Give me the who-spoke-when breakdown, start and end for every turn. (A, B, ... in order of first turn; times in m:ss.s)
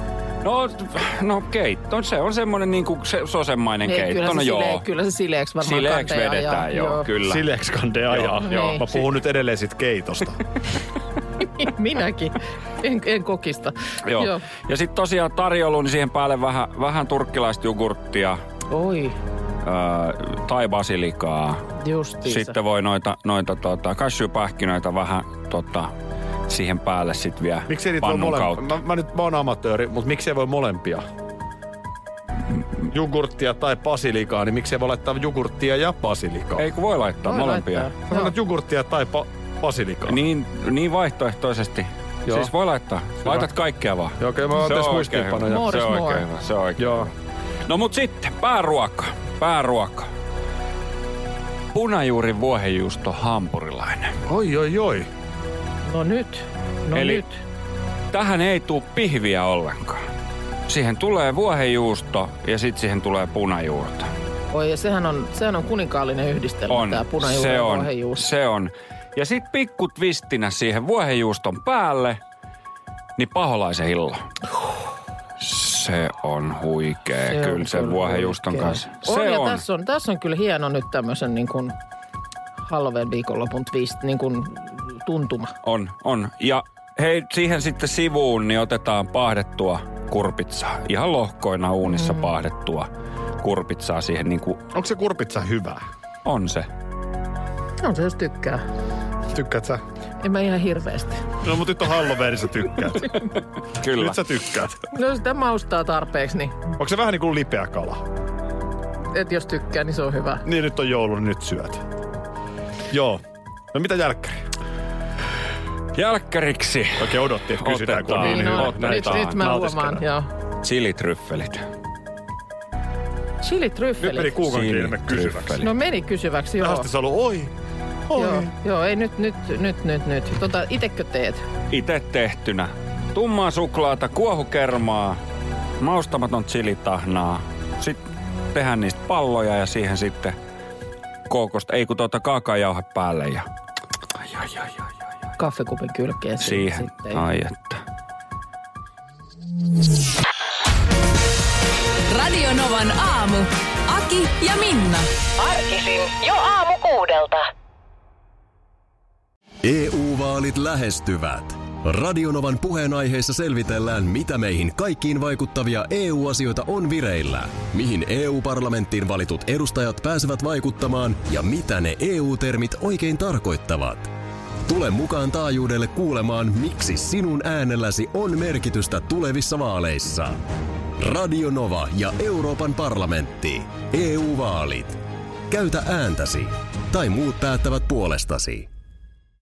0:00.4-0:04.8 A
0:03.8-0:07.1 B
0:05.6-0:07.4 A
0:07.2-0:10.4 C
0:08.1-0:09.0 A
0:08.4-0:08.8 B
0:11.4-0:14.5 B
0:14.1-0:18.4 A
0:18.7-0:19.2 B
0:19.6-0:21.6 A
0:21.8-0:22.6 B
0:22.2-0:25.9 A
0:26.5-0:28.7 A
0:27.7-0:31.0 C
0:32.9-0:36.7 C
0:36.6-0:38.0 A
0:37.2-0:38.3 B
0:38.1-0:40.2 C
0:40.1-0:47.1 A
0:42.3-0:42.5 C
0:43.2-0:43.5 C
0:44.2-0:45.7 C
0:45.4-0:46.2 B
0:46.8-0:47.1 C
0:47.7-0:50.1 A
0:51.7-0:54.2 A
0:54.3-0:55.1 C
0:55.9-0:57.4 B
0:56.9-0:57.2 A
0:58.1-1:00.0 A
1:00.7-1:04.1 A
1:04.5-1:08.3 B
1:06.7-1:12.2 A
1:13.2-1:14.2 A
1:15.4-1:19.6 A
1:17.3-1:21.8 B
1:22.6-1:25.6 B
1:25.6-1:32.9 A
1:31.9-1:32.3 B
1:33.4-1:34.6 A
1:34.7-1:35.8 C
1:36.2-1:36.7 A
1:37.8-1:38.6 B
1:39.3-1:39.8 C
1:40.2-1:41.3 B
1:41.4-1:43.2 C
1:43.2-1:44.2 A
1:43.8-1:44.8 C
1:44.9-1:46.7 B
1:46.8-1:48.0 C
1:49.1-1:50.4 B
1:50.4-1:51.9 C
1:52.9-1:54.5 C
1:56.0-1:59.5 A
1:57.0-2:00.0 C
1:58.2-2:00.3 B
2:00.6-2:01.6 A
2:03.4-2:04.4 B
2:04.0-2:05.6 C
2:04.4-2:05.7 A
2:05.6-2:06.9 B
2:06.6-2:07.5 C
2:08.1-2:08.5 C
2:08.2-2:11.4 B
2:11.7-2:15.2 A
2:15.8-2:18.0 A
2:18.5-2:20.4 A
2:21.3-2:23.5 A
2:24.2-2:24.9 A
2:25.4-2:27.2 B
2:26.4-2:27.8 A
2:32.1-2:35.1 D
2:35.4-2:37.5 E
2:39.6-2:54.1 F
2:54.7-3:00.4 F
3:01.0-3:08.7 F